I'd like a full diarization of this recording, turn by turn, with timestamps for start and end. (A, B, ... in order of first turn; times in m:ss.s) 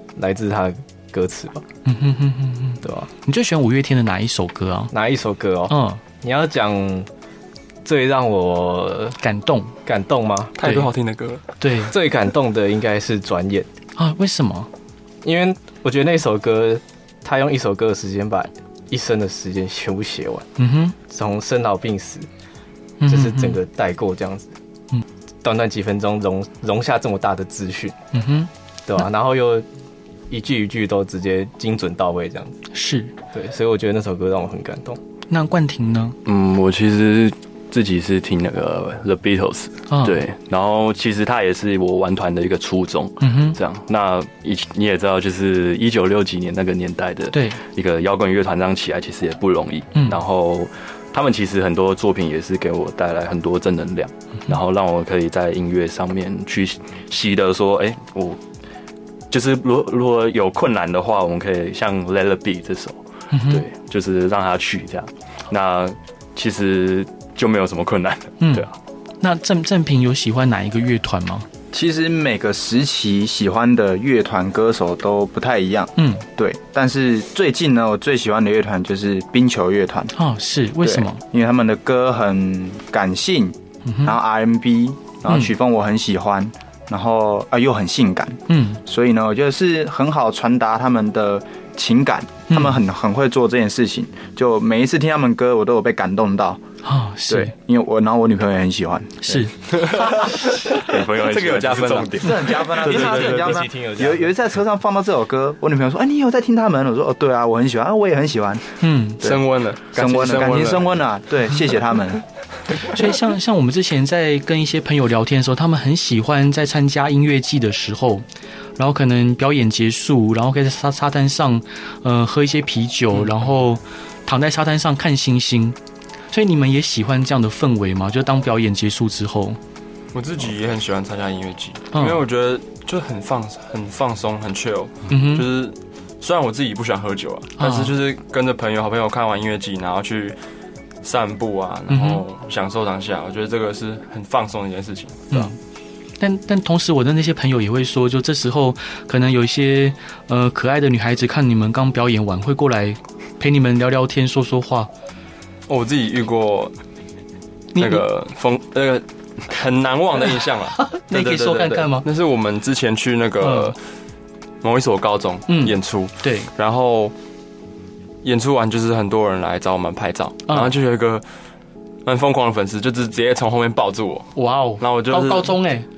0:00.2-0:01.6 A
0:01.9-0:04.9 B
0:02.8-0:03.1 A
0:04.9-0:07.1 A
0:05.7-0:06.0 B
0:07.8-0:09.2 A
0:09.2-0:09.8 B
0:09.9-0:10.6 A
0:10.6-0:11.4 C
0:10.6-0:10.9 B
0:11.6-0:11.9 B
0:11.9-0:13.7 A
0:14.0-0:14.7 B
0:15.2-0:20.5 A
0:20.6-0:21.0 B
0:21.1-0:22.3 A
0:23.0-0:23.6 B
0:23.0-0:24.5 A
0:25.4-0:28.0 A
0:28.1-0:28.5 B
0:28.9-0:29.7 A
0:30.3-0:32.6 A
0:32.7-0:33.1 B
0:33.3-0:35.0 A
0:35.3-0:36.2 B
0:36.2-0:58.4 D
0:39.9-0:40.2 B
0:43.2-0:43.6 B
0:47.3-0:47.6 B
0:50.0-0:50.2 B
0:59.3-1:08.7 D
1:03.3-1:03.6 B
1:08.4-1:08.7 B
1:09.2-1:11.5 B
1:11.7-1:20.1 E
1:16.0-1:16.2 B
1:20.2-1:21.2 B
1:20.8-1:36.6 E
1:23.8-1:24.2 B
1:25.3-1:25.5 B
1:28.5-1:28.8 B
1:32.5-1:32.8 B
1:36.8-1:37.5 B
1:37.3-1:39.5 E
1:39.2-1:39.5 B
1:39.7-1:43.6 C
1:40.2-1:40.7 B
1:40.8-1:42.6 D
1:42.2-1:49.4 E
1:42.8-1:44.3 A
1:48.8-1:49.2 B
1:49.2-1:51.0 C
1:49.9-1:52.2 E
1:52.8-1:58.3 B
1:58.8-2:05.8 B
2:03.2-2:03.5 C
2:06.3-2:09.6 B
2:10.1-2:20.4 C
2:11.9-2:12.2 B
2:15.1-2:15.5 B
2:17.6-2:17.9 B
2:21.0-2:25.5 C
2:21.9-2:22.2 B
2:25.3-2:25.6 B
2:26.2-2:34.9 B
2:35.7-2:36.7 C
2:37.7-2:38.1 B
2:37.8-2:43.8 C
2:40.9-2:42.1 B
2:43.4-2:43.7 B
2:44.6-2:47.1 C
2:45.5-2:46.5 B
2:48.2-2:51.3 C
2:52.0-2:55.6 C
2:54.4-2:55.9 B